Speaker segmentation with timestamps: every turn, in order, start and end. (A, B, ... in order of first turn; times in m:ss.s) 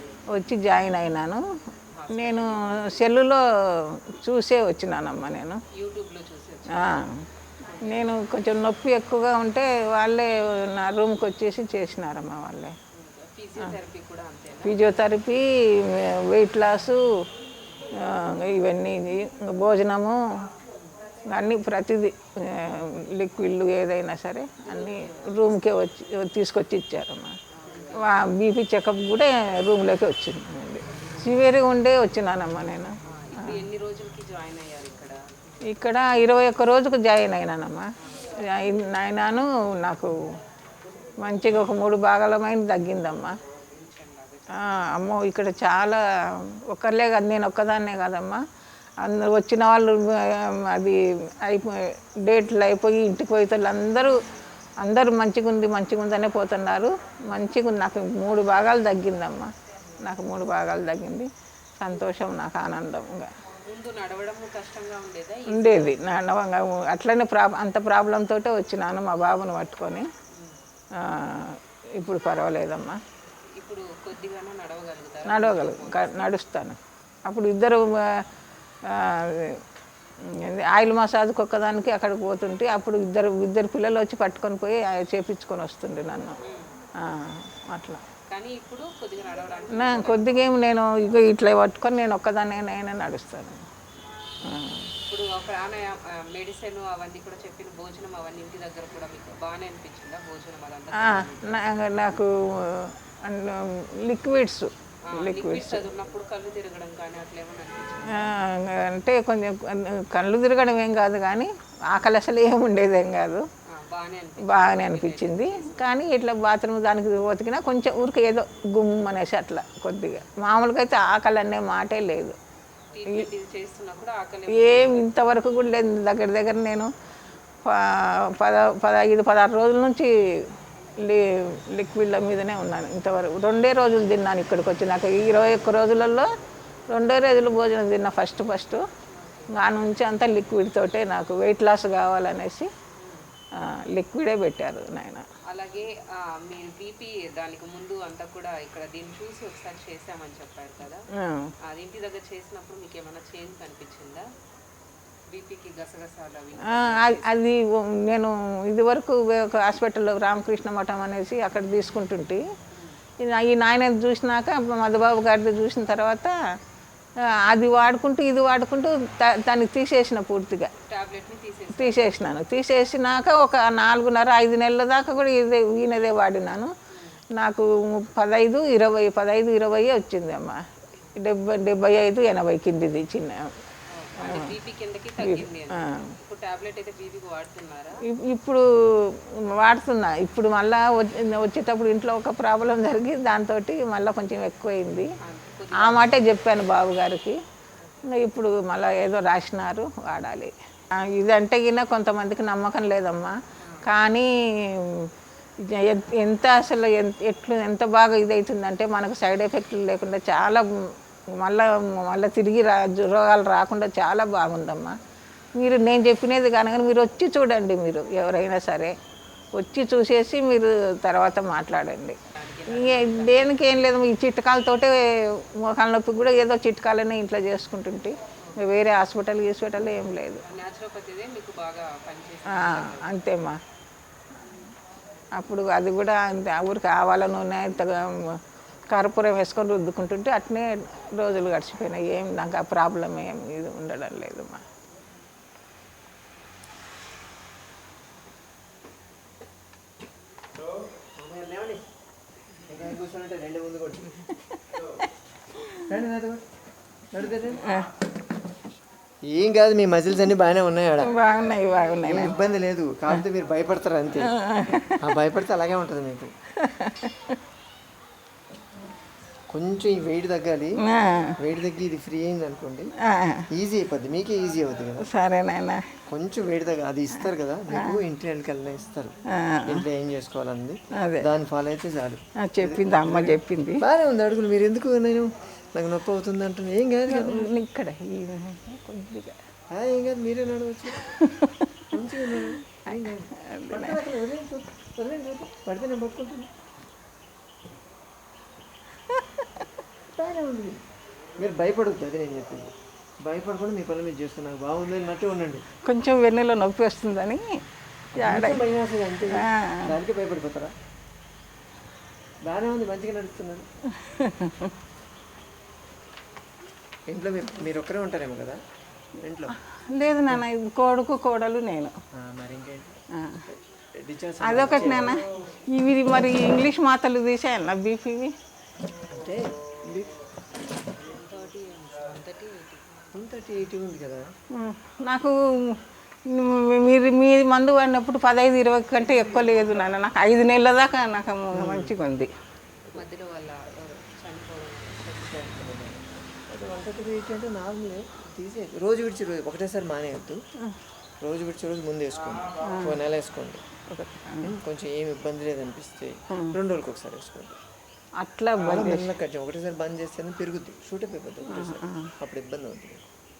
0:00.3-0:01.4 A
0:01.9-0:02.9 B
0:02.1-0:05.6 A
0:05.7-0:07.0 B
0:06.7-0:07.2 A
0:07.6-0:08.2 B
0:07.8-0:12.8 A
0:12.9-0:14.8 B
0:14.6-0:17.1 A
0:18.0-0:20.2 A
0:21.2-0:27.3 A
0:24.6-0:25.6 B
0:27.5-0:28.3 B
0:27.9-0:33.6 A
0:33.0-0:35.6 B
0:35.6-0:40.3 A
0:38.0-0:38.4 B
0:41.2-0:43.4 A
0:43.7-0:44.9 B
0:44.5-0:48.4 A
0:49.0-0:54.2 A
0:54.8-1:03.3 A
1:03.6-1:06.0 B
1:05.5-1:10.1 A
1:10.3-1:10.6 B
1:11.0-1:13.0 A
1:13.6-1:16.4 B
1:15.2-1:18.2 A
1:18.9-1:19.6 A
1:20.2-1:26.4 A
1:26.4-1:26.8 B
1:27.0-1:28.0 A
1:28.3-1:30.5 B
1:29.7-1:33.6 A
1:34.4-1:34.9 A
1:35.1-1:41.8 B
1:40.9-1:45.8 A
1:45.0-1:48.4 B
1:48.1-1:53.5 A
1:53.7-1:55.9 B
1:54.4-2:02.4 A
2:02.9-2:05.0 B
2:04.5-2:06.9 A
2:07.6-2:16.3 A
2:16.9-2:18.8 A
2:19.1-2:19.6 B
2:19.5-2:22.7 A
2:22.9-2:23.3 B
2:23.6-2:25.2 A
2:25.5-2:31.1 B
2:31.1-2:31.5 A
2:31.6-2:34.2 B
2:35.3-2:37.4 B
2:36.6-2:42.4 A
2:42.7-2:43.0 B
2:43.2-2:46.3 A
2:47.4-2:50.7 A
2:50.8-2:52.2 B
2:51.7-2:56.7 A
2:56.9-2:57.2 B
2:57.3-3:00.6 A
3:01.2-3:03.5 A
3:03.9-3:08.0 B
3:04.2-3:04.5 A
3:05.2-3:06.1 A
3:08.0-3:15.1 A
3:15.2-3:16.1 B
3:15.7-3:17.4 A
3:18.0-3:25.1 A
3:23.6-3:23.9 B
3:25.6-3:35.0 A
3:35.6-3:39.0 A
3:39.5-3:50.4 A
3:42.3-3:43.6 B
3:48.4-3:48.6 B
3:50.4-3:53.2 B
3:52.4-3:53.6 A
3:55.3-4:04.6 A
4:11.2-4:11.9 C
4:12.7-4:14.2 C
4:15.9-4:16.4 C
4:17.1-4:17.7 C
4:19.2-4:21.1 C
4:21.0-4:22.3 A
4:22.0-4:24.4 C
4:24.2-4:25.0 A
4:25.0-4:26.3 C
4:26.6-4:27.4 A
4:29.5-4:30.8 C
4:30.8-4:31.3 A
4:31.4-4:32.9 C
4:33.0-4:33.4 A
4:33.5-4:35.1 C
4:35.0-4:35.9 A
4:36.1-4:39.1 C
4:37.7-4:38.0 A
4:39.3-4:39.8 A
4:39.6-4:47.5 C
4:41.0-4:41.3 A
4:42.4-4:43.8 A
4:47.1-4:49.4 A
4:49.7-4:51.1 C
4:51.0-4:54.0 A
4:51.9-4:56.5 C
5:00.1-5:00.8 C
5:01.4-5:05.6 C
5:05.8-5:07.6 A
5:08.2-5:10.7 C
5:08.2-5:08.6 A
5:09.4-5:09.9 A
5:12.4-5:13.6 C
5:14.0-5:14.7 A
5:17.1-5:18.6 C
5:19.2-5:19.6 C
5:19.9-5:21.9 A
5:22.1-5:25.2 C
5:23.1-5:23.4 A
5:24.4-5:28.3 A
5:29.1-5:30.1 C
5:31.0-5:33.1 B
5:33.1-5:34.2 C
5:34.5-5:42.3 A
5:41.5-5:41.9 C
5:42.9-5:45.5 B
5:45.2-5:50.4 C
5:51.2-5:53.6 C
5:52.6-5:53.0 A
5:53.9-5:54.5 A
5:54.4-5:57.6 C
5:56.3-5:56.6 A
5:58.2-5:59.1 A
5:58.6-6:03.0 C
6:01.4-6:02.1 A